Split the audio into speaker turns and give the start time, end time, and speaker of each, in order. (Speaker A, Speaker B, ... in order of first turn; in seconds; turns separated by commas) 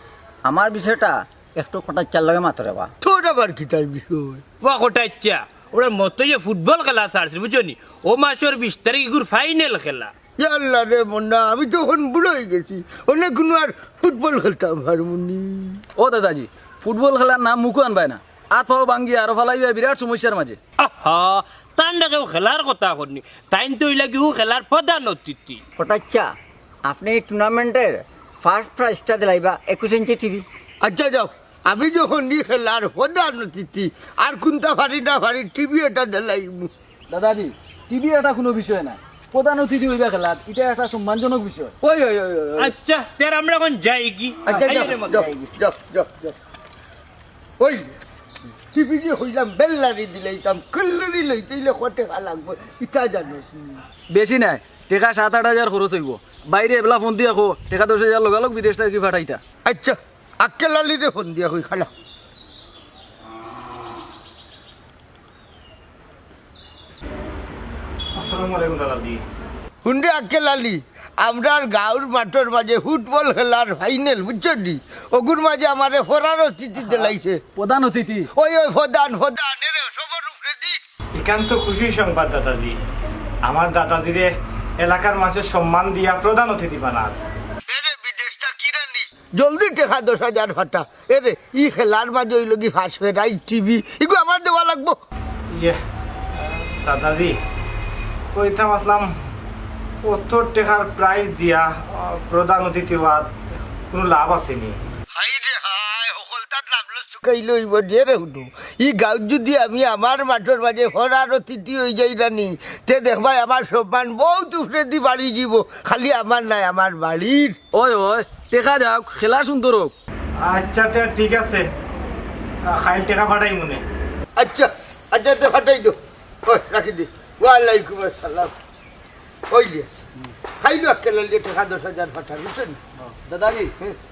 Speaker A: 0.4-2.9, Speaker B: 3.0-4.4, Speaker C: 4.6-10.1, Speaker B: 10.4-15.8, Speaker D: 16.0-20.6, Speaker C: 20.8-25.6, Speaker A: 25.8-26.3, Speaker A: 26.9-30.4, Speaker B: 30.8-36.7, Speaker D: 37.1-41.7, Speaker B: 41.8-42.7, Speaker C: 42.6-45.3, Speaker B: 44.4-46.3, Speaker B: 48.7-53.8, Speaker D: 54.1-59.4, Speaker B: 59.6-61.9, Speaker E: 68.2-69.2, Speaker B: 69.8-77.4, Speaker D: 76.8-78.3, Speaker B: 78.3-80.8, Speaker E: 81.2-82.8, Speaker E: 83.4-84.3, Speaker E: 84.8-87.2, Speaker B: 87.7-95.0, Speaker E: 96.3-97.4, Speaker E: 98.3-99.1, Speaker E: 100.0-103.3, Speaker E: 103.9-104.8, Speaker B: 105.1-117.6, Speaker D: 117.7-119.9, Speaker E: 120.4-121.7, Speaker E: 122.6-123.8, Speaker B: 124.3-128.5, Speaker B: 129.5-129.9, Speaker B: 130.6-132.8, Speaker D: 133.0-133.7